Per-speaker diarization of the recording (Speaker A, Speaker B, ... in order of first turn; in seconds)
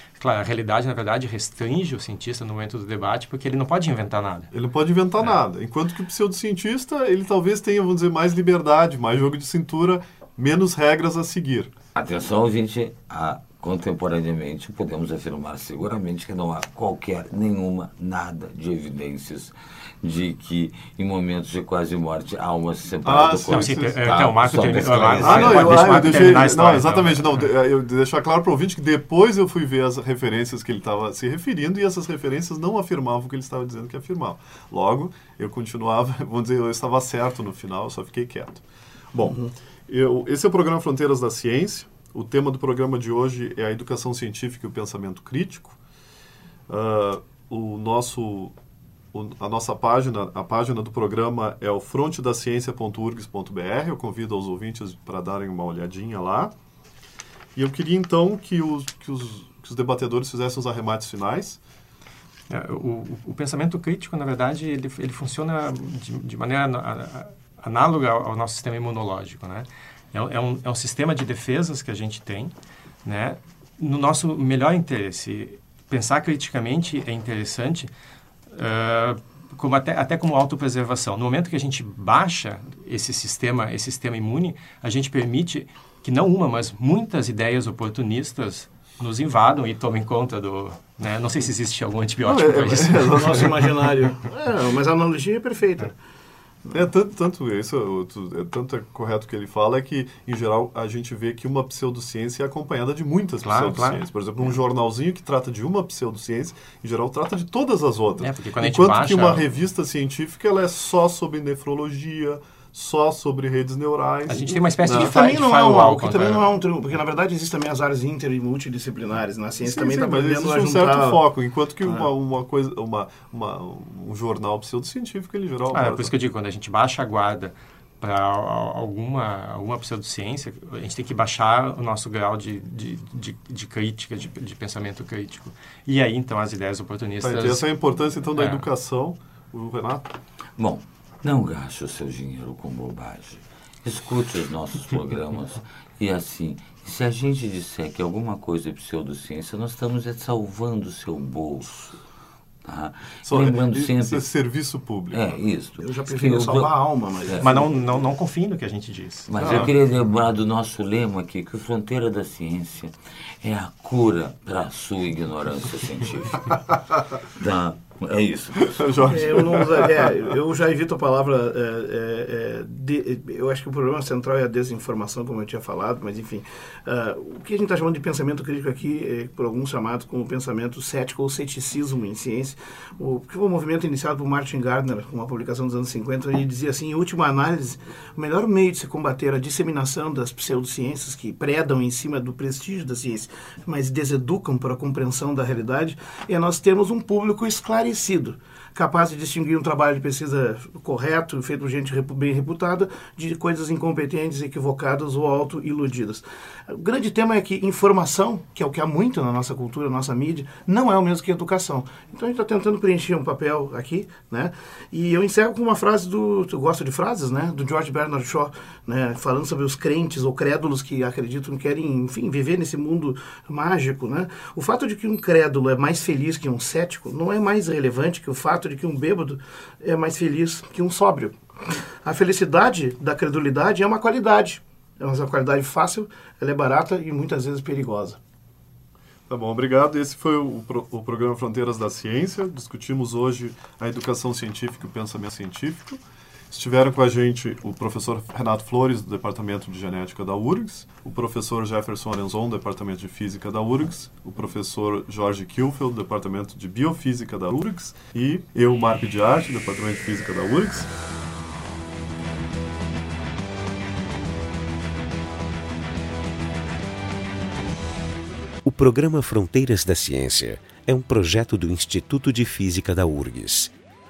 Speaker A: 0.2-4.5, 23.5-27.4, 62.5-77.9, 78.5-93.5, 103.4-104.0, 108.2-109.4, 114.3-116.5, 125.7-137.6, 138.4-138.7, 157.4-159.6
Speaker B: 4.5-11.7, 23.1-24.0, 25.2-45.8, 46.7-48.5, 49.1-56.5, 57.6-61.6, 92.2-93.7, 96.7-115.2, 119.6-126.1, 137.2-140.1, 153.3-155.2, 159.4-159.7, 168.7-170.1, 239.3-260.9
Speaker C: 11.9-26.3, 140.6-152.0, 152.7-154.3, 155.1-156.7, 157.3-157.6, 159.3-166.6, 167.2-169.1
Speaker D: 93.0-95.9, 114.9-121.2, 155.8-157.7, 169.1-231.4, 232.0-238.2
Speaker E: 268.6-273.7